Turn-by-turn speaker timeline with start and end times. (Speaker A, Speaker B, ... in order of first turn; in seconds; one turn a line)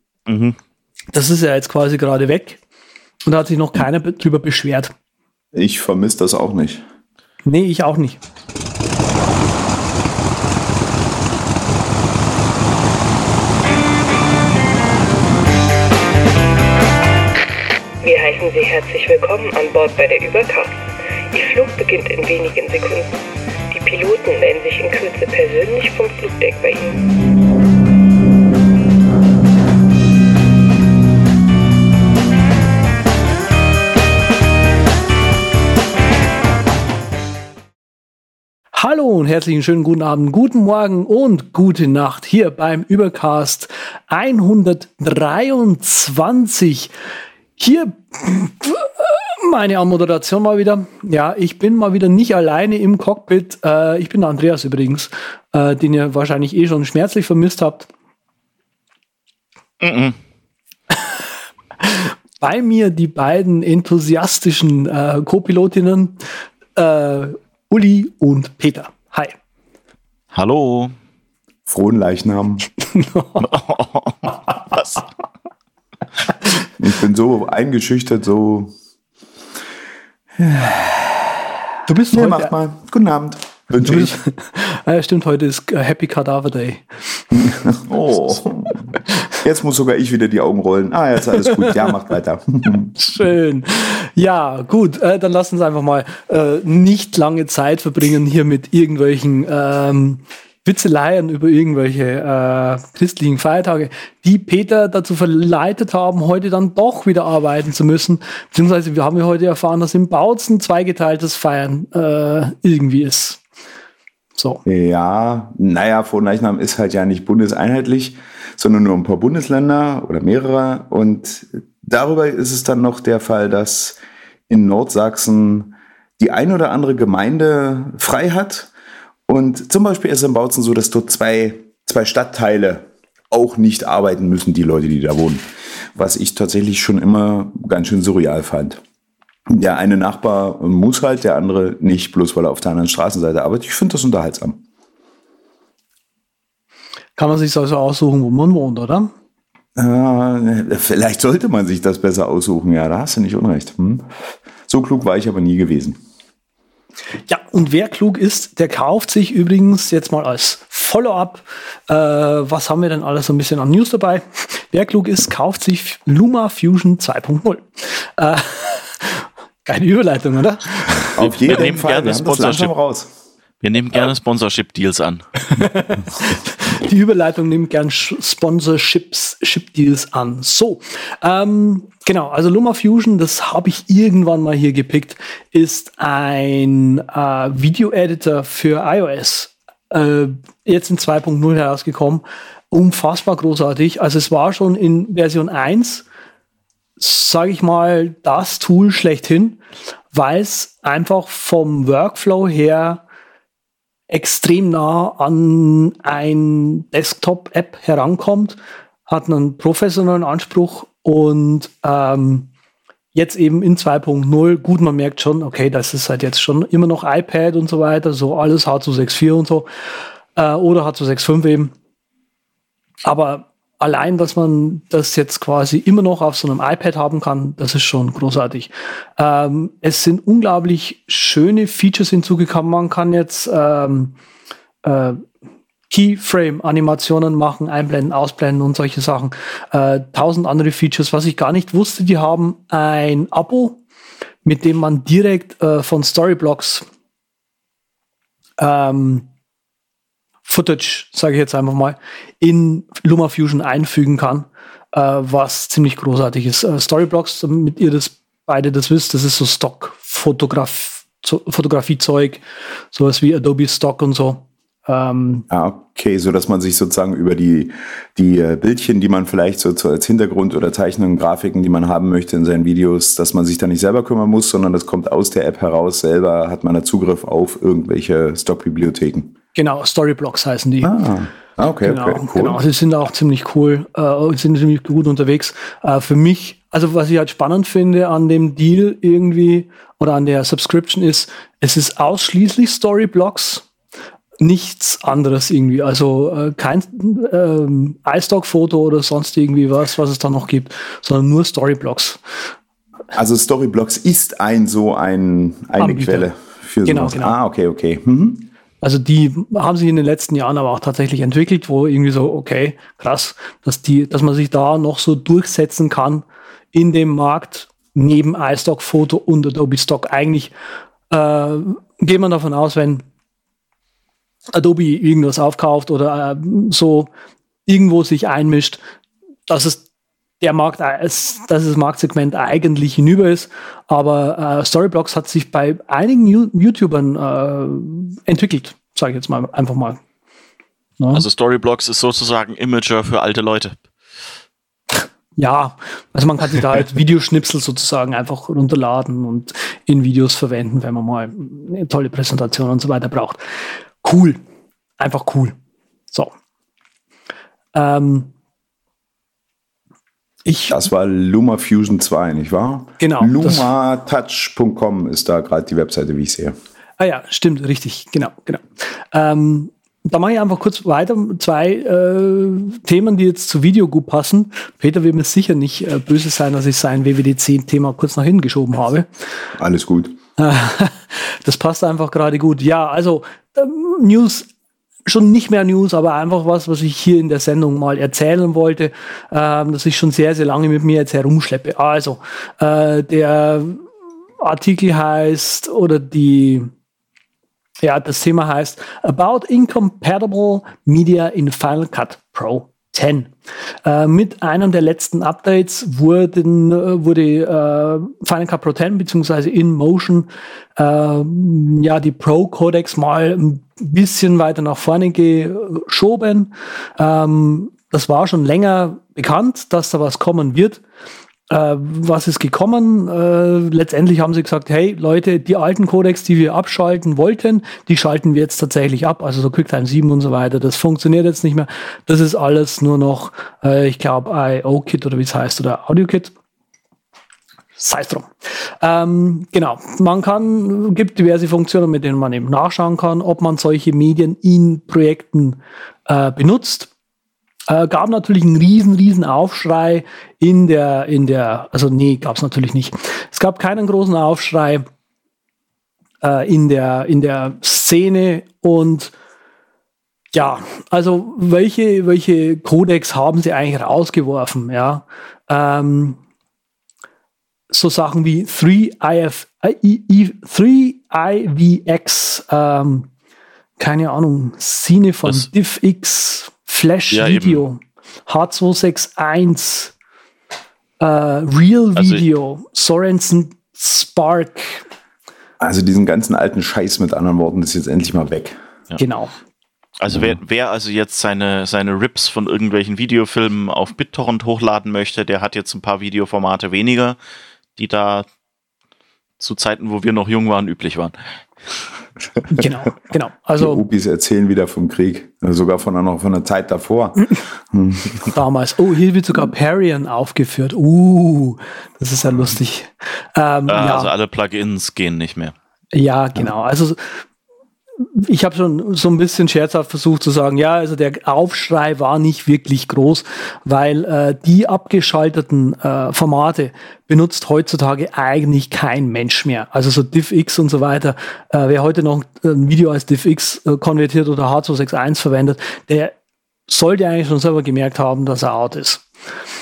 Speaker A: 0.3-0.6
Speaker B: 1.1-2.6
Speaker B: 3.2-4.9
Speaker C: 5.5-6.8
Speaker B: 7.4-8.2
Speaker D: 18.0-20.7
Speaker D: 21.3-23.1
Speaker D: 23.7-27.1
Speaker B: 38.7-46.9
Speaker B: 47.6-57.9
Speaker A: 59.8-60.2
Speaker B: 61.8-66.2
Speaker B: 66.7-69.4
Speaker A: 70.3-70.9
Speaker C: 71.7-72.7
Speaker B: 72.9-73.5
Speaker A: 73.4-75.0
Speaker C: 76.8-78.7
Speaker C: 80.4-81.5
Speaker B: 81.8-82.5
Speaker C: 82.1-84.2
Speaker B: 83.8-87.0
Speaker C: 87.3-92.9
Speaker B: 93.0-113.4
Speaker B: 114.4-114.6
Speaker C: 114.7-124.0
Speaker C: 124.5-128.7
Speaker C: 129.3-138.8
Speaker C: 139.5-144.6
Speaker B: 147.2-149.1
Speaker C: 149.8-154.1
Speaker C: 154.7-156.0
Speaker B: 157.3-171.1
Speaker C: 170.9-173.1
Speaker A: 171.2-172.7
Speaker A: 173.6-175.6
Speaker B: 175.5-196.0
Speaker B: 197.0-199.6
Speaker B: 200.1-203.0
Speaker B: 204.1-212.5
Speaker B: 213.1-219.7
Speaker B: 220.3-221.7
Speaker B: 223.0-234.1
Speaker B: 234.8-235.2
Speaker B: 235.9-243.8
Speaker B: 244.4-246.8
Speaker B: 248.6-249.3
Speaker B: 250.4-265.4
Speaker C: 265.5-279.3
Speaker B: 279.5-280.9
Speaker C: 280.8-282.6
Speaker B: 281.8-293.7
Speaker B: 294.4-302.2
Speaker C: 303.1-308.5
Speaker B: 305.8-306.3
Speaker B: 306.8-307.4
Speaker B: 308.8-320.5
Speaker B: 321.1-323.0
Speaker B: 324.5-327.1
Speaker B: 327.6-328.8
Speaker B: 329.5-329.8
Speaker B: 330.4-340.0
Speaker B: 341.0-341.2
Speaker A: 341.1-343.8
Speaker B: 345.4-354.4
Speaker B: 355.0-355.6
Speaker B: 357.7-358.3
Speaker B: 360.4-360.9
Speaker C: 360.7-366.5
Speaker B: 363.0-363.6
Speaker B: 367.0-379.1
Speaker C: 379.6-380.2
Speaker B: 380.4-384.5
Speaker B: 385.1-393.8
Speaker B: 394.4-396.7
Speaker B: 397.8-403.3
Speaker B: 403.8-420.8
Speaker B: 421.5-436.3
Speaker B: 437.8-438.3
Speaker B: 438.8-446.9
Speaker B: 447.7-454.9
Speaker B: 456.2-459.1
Speaker B: 460.3-466.2
Speaker B: 467.7-473.1
Speaker B: 473.8-479.9
Speaker A: 477.1-477.6
Speaker B: 481.0-484.8
Speaker A: 481.9-482.2
Speaker C: 485.6-488.6
Speaker B: 489.0-489.3
Speaker A: 490.0-497.2
Speaker A: 497.8-498.2
Speaker A: 499.4-501.1
Speaker B: 502.5-503.8
Speaker C: 503.6-508.3
Speaker B: 508.2-514.1
Speaker A: 513.7-515.5
Speaker B: 515.9-517.2
Speaker B: 518.0-536.1
Speaker B: 536.7-539.1